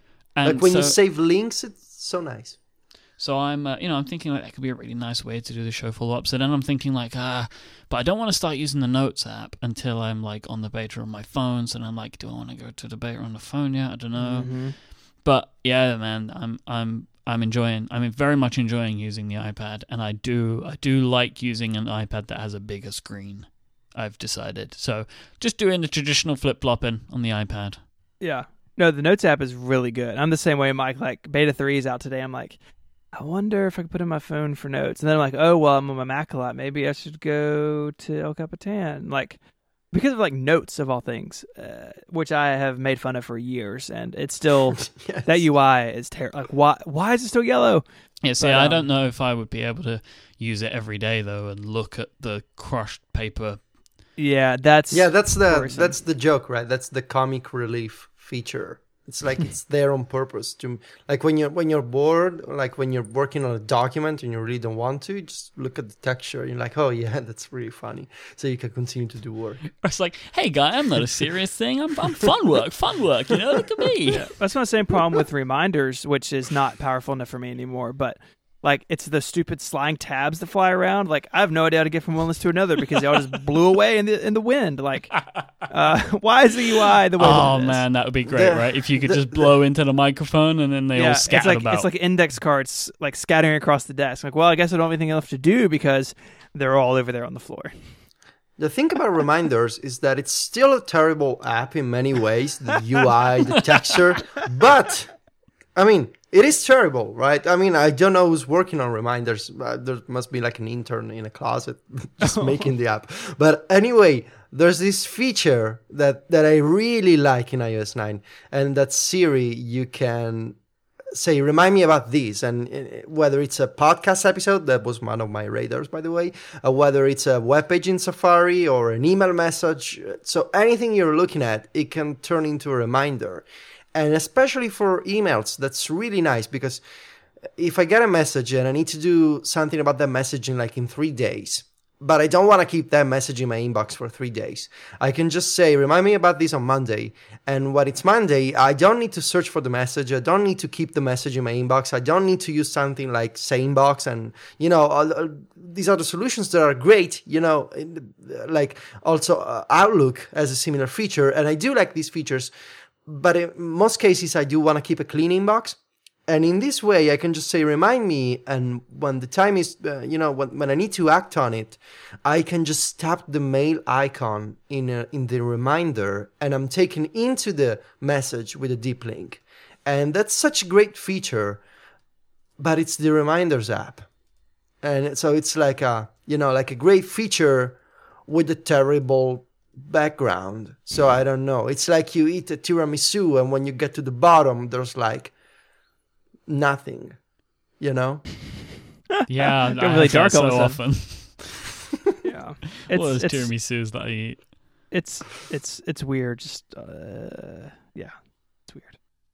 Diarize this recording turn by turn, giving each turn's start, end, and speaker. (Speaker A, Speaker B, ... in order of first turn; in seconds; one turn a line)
Speaker A: 0.3-1.0
Speaker B: 0.4-2.6
Speaker A: 3.2-27.8
Speaker C: 14.3-14.7
Speaker C: 28.2-32.6
Speaker C: 33.1-39.4
Speaker C: 39.9-47.8
Speaker B: 44.9-45.5
Speaker A: 48.2-53.6
Speaker C: 48.4-48.8
Speaker C: 54.2-56.0
Speaker B: 54.9-69.7
Speaker A: 69.8-74.3
Speaker C: 74.1-87.8
Speaker A: 87.2-91.9
Speaker B: 88.2-89.5
Speaker C: 90.9-97.8
Speaker B: 98.6-105.1
Speaker B: 105.7-120.6
Speaker C: 112.2-112.7
Speaker B: 121.1-136.8
Speaker B: 137.6-162.5
Speaker B: 163.1-181.6
Speaker B: 182.6-184.1
Speaker B: 184.8-195.3
Speaker B: 196.5-197.2
Speaker B: 197.8-198.3
Speaker C: 199.2-200.8
Speaker A: 199.3-201.8
Speaker C: 202.2-203.5
Speaker A: 202.9-204.5
Speaker C: 204.9-208.9